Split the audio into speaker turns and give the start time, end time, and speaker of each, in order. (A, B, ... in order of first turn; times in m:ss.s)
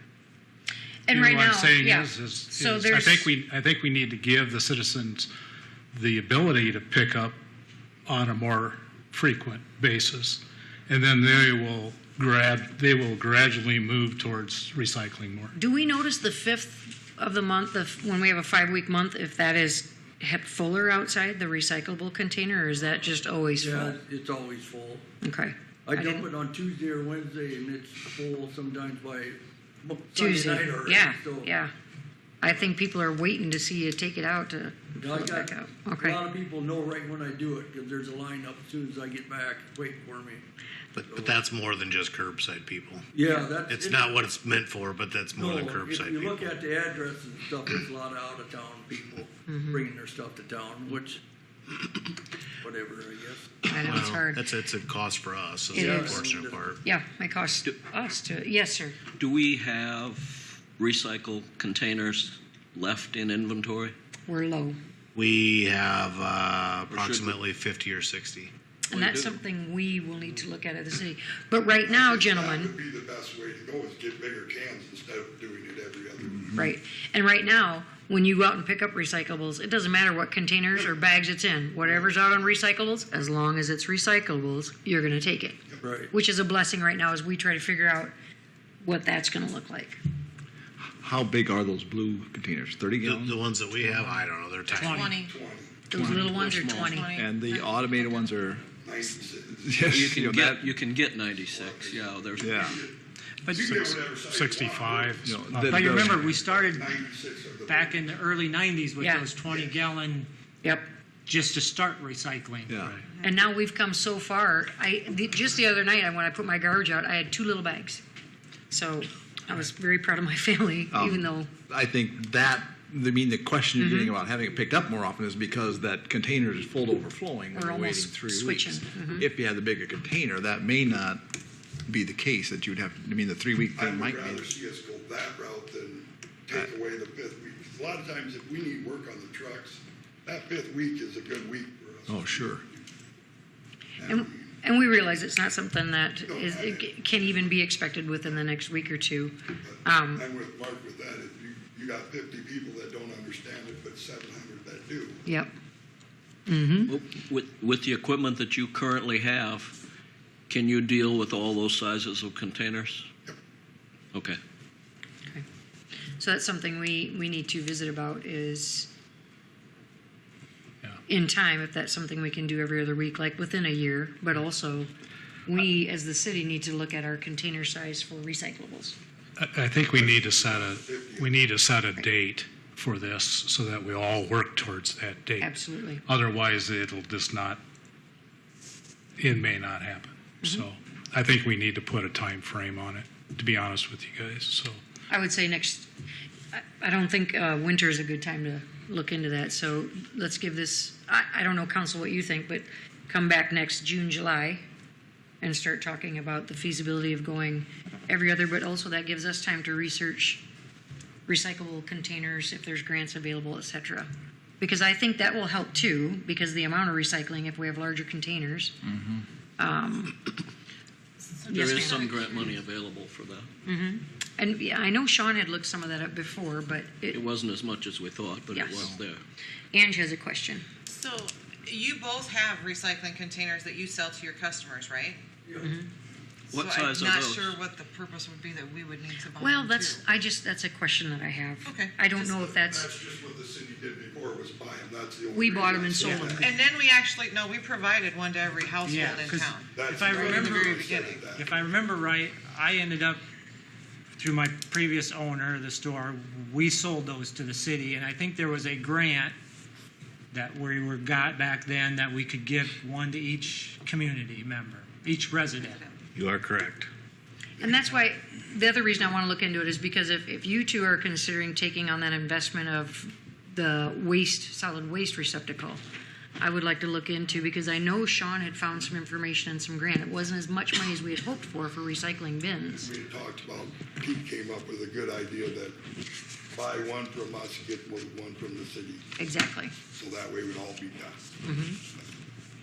0:01.1-0:03.3 A
0:01.1-0:05.3 B
0:05.9-0:07.4 B
0:08.0-0:15.5 B
0:15.5-0:24.0 A
0:23.5-0:25.1 C
0:25.2-0:26.3 A
0:25.9-0:31.5 C
0:30.1-0:31.7 A
0:32.4-0:36.2 A
0:35.0-0:40.4 C
0:40.9-0:43.0 D
0:41.0-0:41.4 C
0:43.1-0:44.2 C
0:43.7-0:46.5 D
0:45.3-0:51.2 C
0:49.5-0:49.8 A
0:52.6-0:53.5 C
0:53.7-0:54.5 A
0:53.7-0:56.8 D
0:55.7-0:56.2 A
0:55.7-0:56.7 C
0:56.8-0:59.0 A
0:59.2-1:03.9 E
1:04.3-1:04.8 A
1:05.2-1:08.5 D
1:06.9-1:07.4 E
1:08.9-1:12.7 A
1:08.9-1:09.4 E
1:11.8-1:16.5 F
1:16.4-1:28.1 A
1:25.8-1:26.1 C
1:28.8-1:30.0 A
1:30.8-1:33.4 G
1:33.0-1:35.0 D
1:34.7-1:35.2 H
1:34.9-1:35.9 F
1:34.9-1:35.3 I
1:35.9-1:37.1 A
1:36.0-1:36.3 G
1:36.0-1:37.0 E
1:36.6-1:38.4 I
1:37.2-1:38.7 G
1:38.8-1:40.0 F
1:39.6-1:40.8 G
1:39.8-1:42.7 E
1:41.4-1:48.2 F
1:42.4-1:42.8 G
1:43.4-1:43.9 H
1:44.3-1:46.4 B
1:45.2-1:46.2 G
1:45.7-1:46.9 H
1:47.7-1:50.3 H
1:49.0-1:49.3 A
1:49.4-1:49.7 F
1:50.6-1:50.9 A
1:51.3-1:52.9 H
1:52.7-1:52.9 G
1:53.2-1:58.0 A
1:58.7-2:01.5 A
2:00.9-2:11.3 G
2:03.8-2:04.1 A
2:07.5-2:09.2 A
2:11.9-2:14.4 G
2:13.8-2:22.8 F
2:22.1-2:22.6 G
2:24.0-2:24.4 F
2:24.0-2:30.2 A
2:26.3-2:27.4 F
2:29.6-2:35.2 F
2:35.2-2:35.5 A
2:36.5-2:37.0 A
2:36.9-2:39.7 E
2:40.5-2:43.0 E
2:44.1-2:44.4 E
2:46.2-2:48.9 A
2:51.1-2:54.9 A
2:55.5-2:59.0 A
2:59.4-3:05.5 B
2:59.8-3:01.5 F
3:05.4-3:06.0 A
3:06.1-3:07.6 B
3:09.2-3:14.8 B
3:15.1-3:15.9 A
3:16.5-3:24.6 A
3:25.4-3:30.4 A
3:31.3-3:34.1 A
3:34.6-3:38.9 A
3:39.6-3:40.2 A
3:41.4-3:42.5 I
3:41.5-3:42.1 A
3:41.5-3:43.5 E
3:43.7-3:47.2 A
3:47.1-3:49.2 E
3:48.5-3:48.9 A
3:49.7-3:50.7 A
3:50.9-3:55.2 I
3:55.4-3:55.8 C
3:56.5-3:57.6 E
3:56.5-4:00.0 I
3:59.4-4:02.9 A
4:01.7-4:02.2 I
4:02.2-4:06.4 F
4:05.3-4:06.6 A
4:06.2-4:11.2 I
4:08.9-4:13.2 H
4:09.7-4:11.7 F
4:14.2-4:19.4 H
4:20.3-4:25.8 H
4:25.6-4:25.9 I
4:26.1-4:26.9 D
4:27.6-4:35.8 A
4:36.4-4:42.9 A
4:42.7-4:45.8 F
4:46.5-4:49.1 F
4:49.2-4:49.7 A
4:49.9-4:51.3 F
4:51.4-4:51.8 A